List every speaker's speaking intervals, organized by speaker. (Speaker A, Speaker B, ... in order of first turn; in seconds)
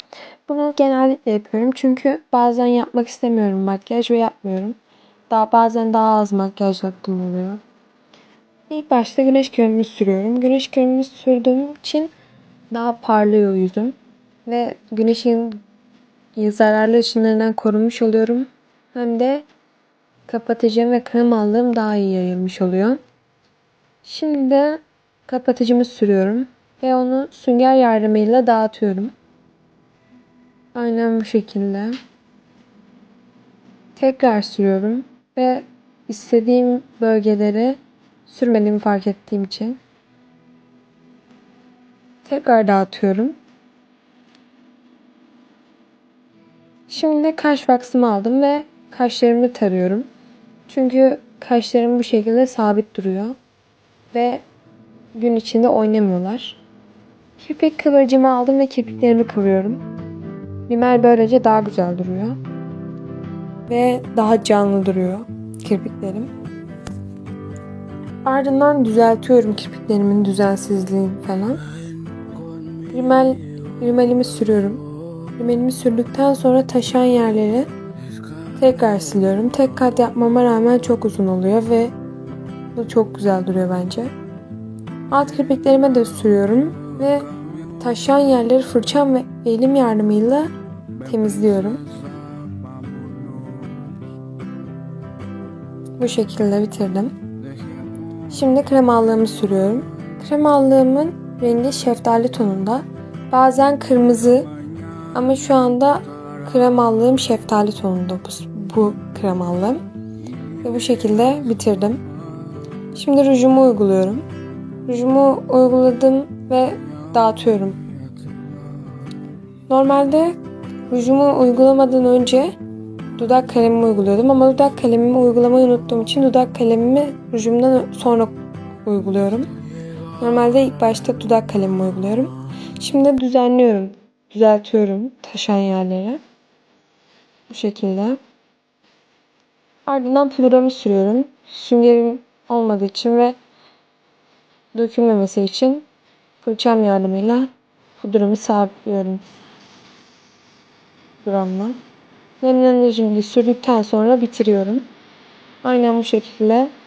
Speaker A: 0.5-4.8, 5.3-7.6, 8.7-12.1, 12.7-13.9, 14.5-15.6, 16.4-19.4, 20.3-23.0, 24.0-29.1, 30.8-32.0, 34.0-39.8, 42.2-43.4, 46.9-50.1, 50.7-53.4, 54.1-54.4, 55.1-56.6, 57.4-59.8, 60.7-62.4, 63.7-66.3, 68.2-71.6, 72.9-77.7, 78.6-81.9, 82.8-84.1, 85.1-91.8, 96.0-97.1, 98.3-104.5, 105.1-109.8, 110.6-112.0, 112.9-114.2, 114.9-117.8, 119.7-120.4, 120.9-122.5, 123.2-129.5, 130.2-136.2, 137.5-138.2, 139.9-143.4, 144.7-145.8, 146.4-149.2, 151.2-151.8, 152.4-154.8, 155.6-156.7